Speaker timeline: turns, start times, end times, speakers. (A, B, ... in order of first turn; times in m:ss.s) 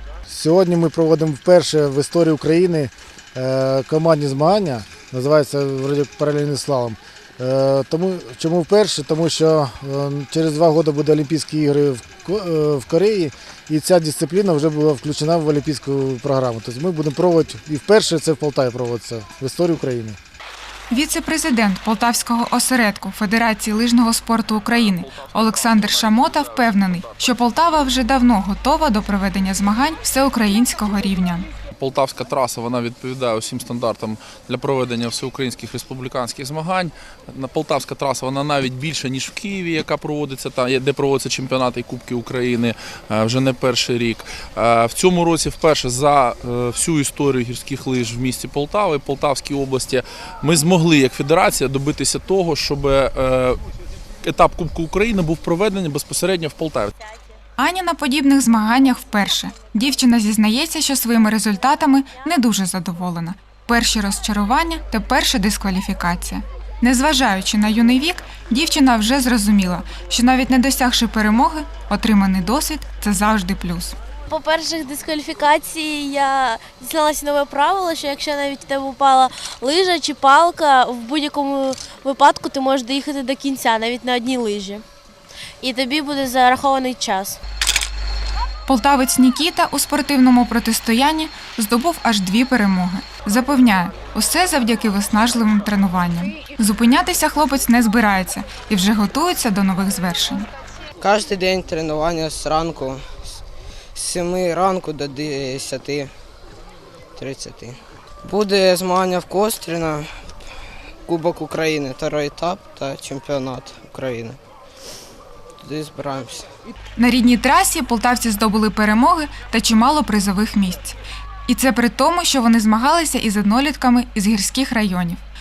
0:00.3-0:20.2 A
0:20.9-0:31.5 B
0:24.7-0:27.4 C
0:31.8-0:53.6 C
0:54.2-0:56.9 C
0:57.6-1:14.0 B
1:14.3-1:24.8 D
1:25.6-1:27.4 D
1:28.6-1:40.5 B
1:41.0-1:43.3 E
1:43.9-1:46.1 E
1:47.2-1:50.4 E
1:51.0-1:54.4 E
1:55.6-1:56.5 E
1:57.0-2:05.2 B